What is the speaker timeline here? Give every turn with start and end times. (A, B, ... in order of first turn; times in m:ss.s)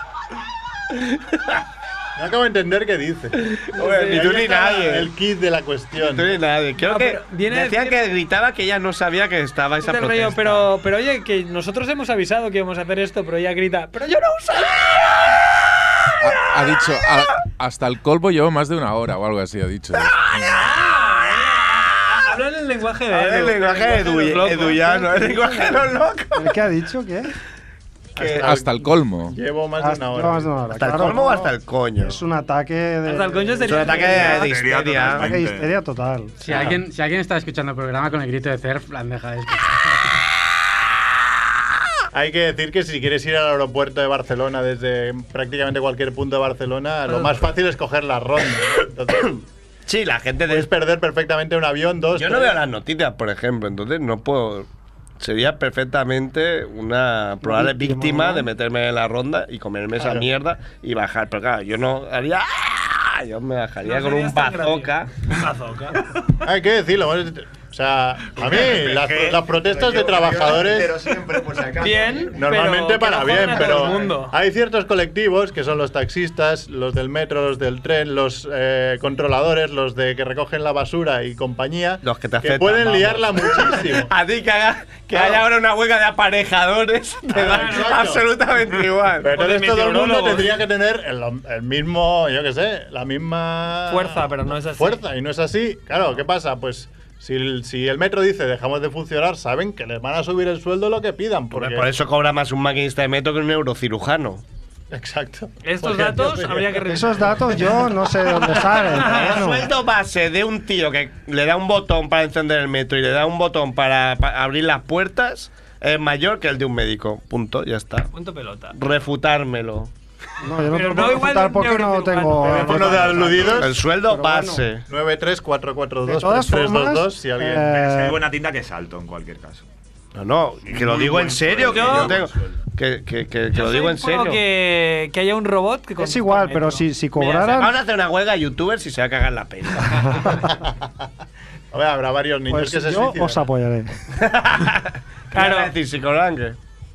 0:02.2-0:06.4 A
0:03.7-0:04.4 B
0:03.7-0:05.1 C
0:06.0-0:10.7 C
0:06.8-0:08.1 B
0:09.8-0:15.1 B
0:16.2-0:20.4 D
0:20.2-0:20.6 C
0:20.5-0:25.8 B
0:23.1-0:26.6 C
0:26.4-0:27.3 E
0:28.2-0:30.8 A
0:28.2-0:28.6 C
0:28.3-0:29.4 D
0:29.8-0:34.4 E
0:30.7-0:32.2 C
0:33.0-0:34.5 B
0:33.6-0:35.3 C
0:34.2-0:35.7 F
0:34.9-0:36.7 E
0:36.4-0:40.1 G
0:36.5-0:36.8 C
0:42.1-0:49.3 A
0:49.2-0:50.7 C
0:50.4-0:52.6 A
0:52.1-0:54.7 C
0:55.2-1:05.1 C
0:57.4-0:58.5 E
1:00.0-1:00.3 A
1:03.8-1:06.2 B
1:06.4-1:11.0 A
1:08.8-1:12.3 H
1:11.8-1:14.3 B
1:12.3-1:24.1 A
1:22.0-1:29.3 C
1:25.1-1:25.4 A
1:27.3-1:28.3 A
1:27.4-1:28.1 B
1:29.2-1:41.9 A
1:29.2-1:30.5 B
1:33.9-1:35.0 B
1:41.5-1:44.4 C
1:44.9-1:47.7 A
1:45.6-1:47.7 B
1:46.9-1:49.7 E
1:48.6-1:49.4 B
1:49.0-1:58.1 C
1:58.1-1:58.8 B
1:58.7-1:59.9 C
2:00.4-2:04.6 E
2:00.7-2:03.4 B
2:02.4-2:03.8 A
2:03.4-2:04.8 C
2:04.9-2:07.9 A
2:06.1-2:08.2 E
2:07.6-2:09.7 F
2:10.1-2:14.4 C
2:10.7-2:12.3 F
2:11.6-2:12.1 B
2:13.5-2:17.6 B
2:16.0-2:17.7 E
2:17.5-2:20.4 C
2:21.7-2:23.5 A
2:22.5-2:24.0 E
2:24.2-2:26.6 C
2:25.3-2:25.7 B